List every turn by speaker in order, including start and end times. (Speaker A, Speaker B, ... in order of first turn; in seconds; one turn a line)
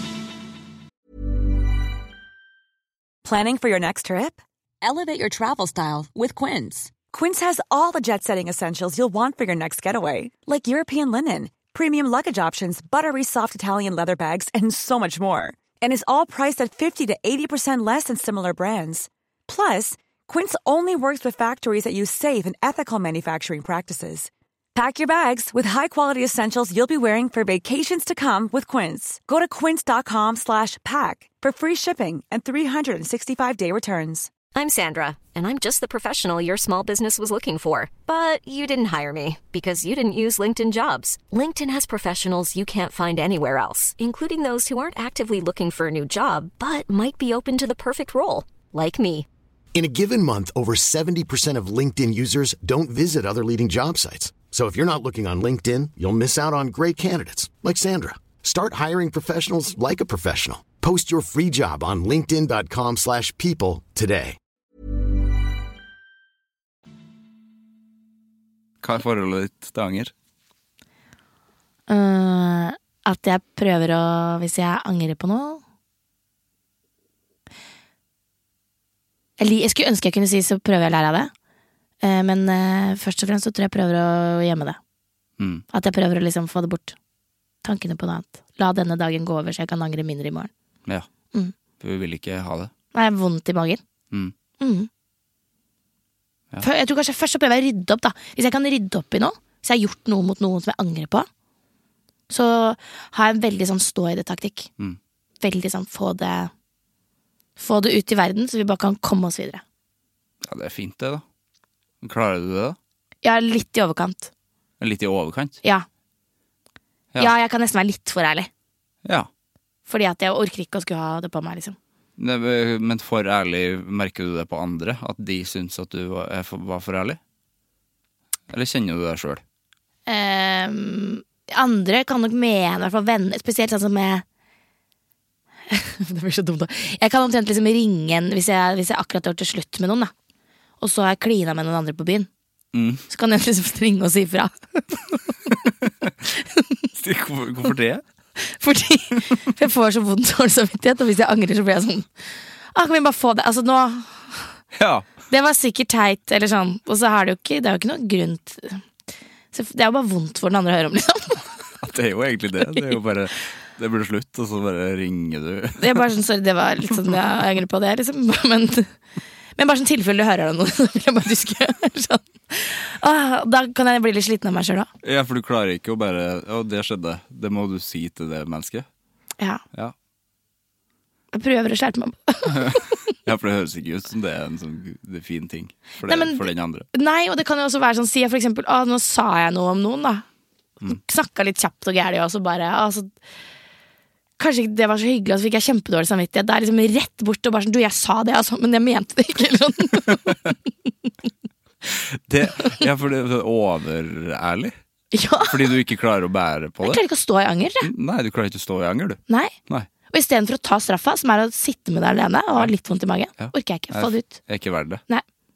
Speaker A: 3.2-34.3
Speaker B: 34.5-49.3
Speaker C: 49.8-64.4
Speaker D: 68.8-70.1
Speaker E: 71.9-75.6
Speaker E: 79.4-81.3
Speaker E: 82.0-84.8
Speaker D: 85.4-85.6
Speaker E: 85.7-87.0
Speaker E: 87.6-90.5
Speaker D: 91.8-92.7
Speaker E: 92.9-93.8
Speaker E: 94.6-94.9
Speaker E: 96.6-101.3
Speaker E: 102.3-104.7
Speaker E: 105.4-106.5
Speaker E: 107.6-109.6
Speaker D: 110.4-111.2
Speaker D: 112.0-112.8
Speaker E: 113.2-114.3
Speaker D: 114.8-115.6
Speaker E: 117.2-118.5
Speaker E: 119.9-121.8
Speaker D: 122.2-127.2
Speaker D: 128.5-129.4
Speaker E: 130.1-134.2
Speaker E: 135.7-140.1
Speaker E: 140.8-142.3
Speaker D: 142.7-143.0
Speaker E: 143.1-145.0
Speaker E: 146.3-146.8
Speaker D: 146.9-148.0
Speaker E: 148.4-152.1
Speaker E: 152.7-154.6
Speaker D: 154.7-155.1
Speaker E: 155.3-158.8
Speaker E: 159.5-161.4
Speaker D: 161.8-166.1
Speaker E: 165.8-168.9
Speaker E: 169.6-174.9
Speaker D: 175.0-178.9
Speaker E: 181.3-182.9
Speaker D: 182.5-186.9
Speaker E: 186.1-190.2
Speaker E: 190.9-193.1
Speaker E: 194.4-200.4
Speaker D: 201.9-204.8
Speaker E: 205.1-205.8
Speaker D: 205.4-207.0
Speaker E: 206.8-207.9
Speaker D: 207.8-209.9
Speaker E: 209.3-209.5
Speaker E: 210.1-214.4
Speaker D: 213.4-215.0